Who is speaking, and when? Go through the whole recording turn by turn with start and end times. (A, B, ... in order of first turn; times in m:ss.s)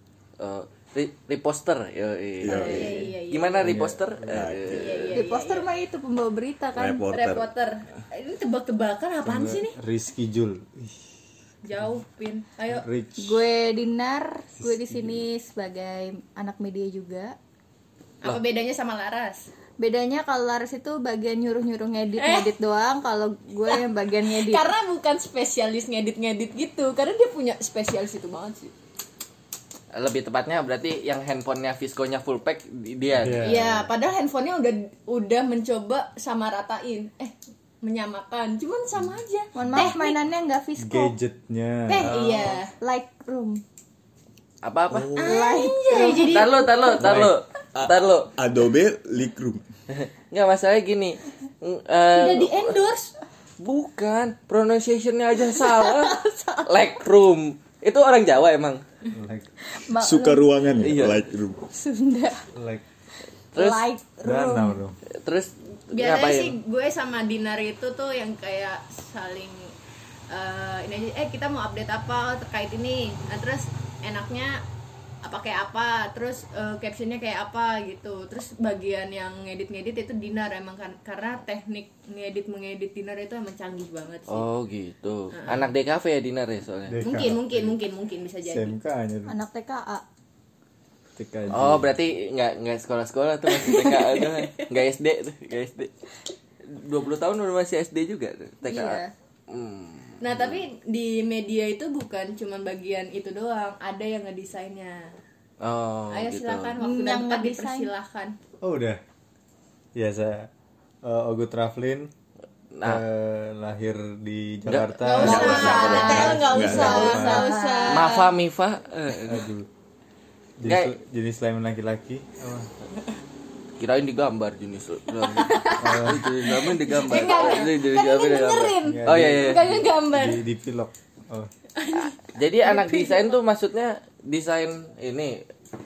0:00.4-0:05.0 A
0:02.4-0:03.1 B
0:02.4-0:03.8 C
0:03.6-0:04.6 D
0:04.3-0:05.2 B
0:04.7-0:05.7 C
0:05.1-0:07.0 E
0:06.7-0:07.5 B
0:07.1-0:09.8 C
0:09.2-0:11.0 D
0:11.6-0:12.9 C
0:12.7-0:13.4 D
0:13.2-0:17.4 E
0:14.6-0:15.2 D
0:18.2-0:19.5 C
0:19.8-0:24.7 E
0:22.2-0:22.5 C
0:23.7-0:28.7 C
0:29.9-0:33.7 A
0:33.2-0:33.8 D
0:33.4-0:40.2 C
0:39.5-0:41.2 E
0:40.8-0:42.2 D
0:41.9-0:42.7 C
0:42.8-0:43.6 E
0:44.6-0:45.1 A
0:44.9-0:45.4 B
0:45.2-0:46.7 E
0:45.2-0:47.0 C
0:46.3-0:48.3 A
0:47.0-0:47.3 D
0:47.7-0:49.6 B
0:49.9-0:52.7 A
0:52.1-0:53.1 C
0:53.6-0:58.8 A
0:55.8-0:56.6 E
0:59.1-0:59.5 D
0:59.6-1:00.4 E
0:59.9-1:01.7 B
1:00.8-1:01.2 A
1:01.7-1:02.4 E
1:02.5-1:02.8 D
1:03.5-1:03.9 A
1:03.5-1:04.8 E
1:04.2-1:05.0 D
1:05.2-1:06.6 A
1:05.9-1:09.7 C
1:10.3-1:14.6 C
1:15.2-1:24.4 C
1:24.3-1:27.0 A
1:25.3-1:25.6 C
1:26.9-1:27.7 D
1:27.0-1:28.7 C
1:28.4-1:29.4 D
1:29.3-1:30.0 E
1:31.2-1:31.9 D
1:31.5-1:35.9 A
1:36.6-1:40.2 A
1:38.6-1:39.1 E
1:40.2-1:45.1 C
1:45.6-1:46.8 A
1:46.1-1:48.4 C
1:46.8-1:47.9 E
1:48.6-1:49.0 D
1:49.9-1:50.5 D
1:51.0-1:52.1 D
1:52.7-1:53.0 A
1:52.8-1:57.5 D
1:54.6-1:56.1 A
1:55.0-1:58.3 C
1:55.2-1:57.2 B
1:55.5-1:58.2 E
1:57.8-1:59.4 A
1:59.2-1:59.7 D
2:00.6-2:02.7 D
2:00.6-2:00.9 A
2:03.8-2:09.6 A
2:05.3-2:05.9 C
2:05.8-2:06.4 D
2:06.8-2:10.4 C
2:07.2-2:07.7 E
2:08.8-2:11.5 D
2:11.8-2:13.3 C
2:12.0-2:15.4 A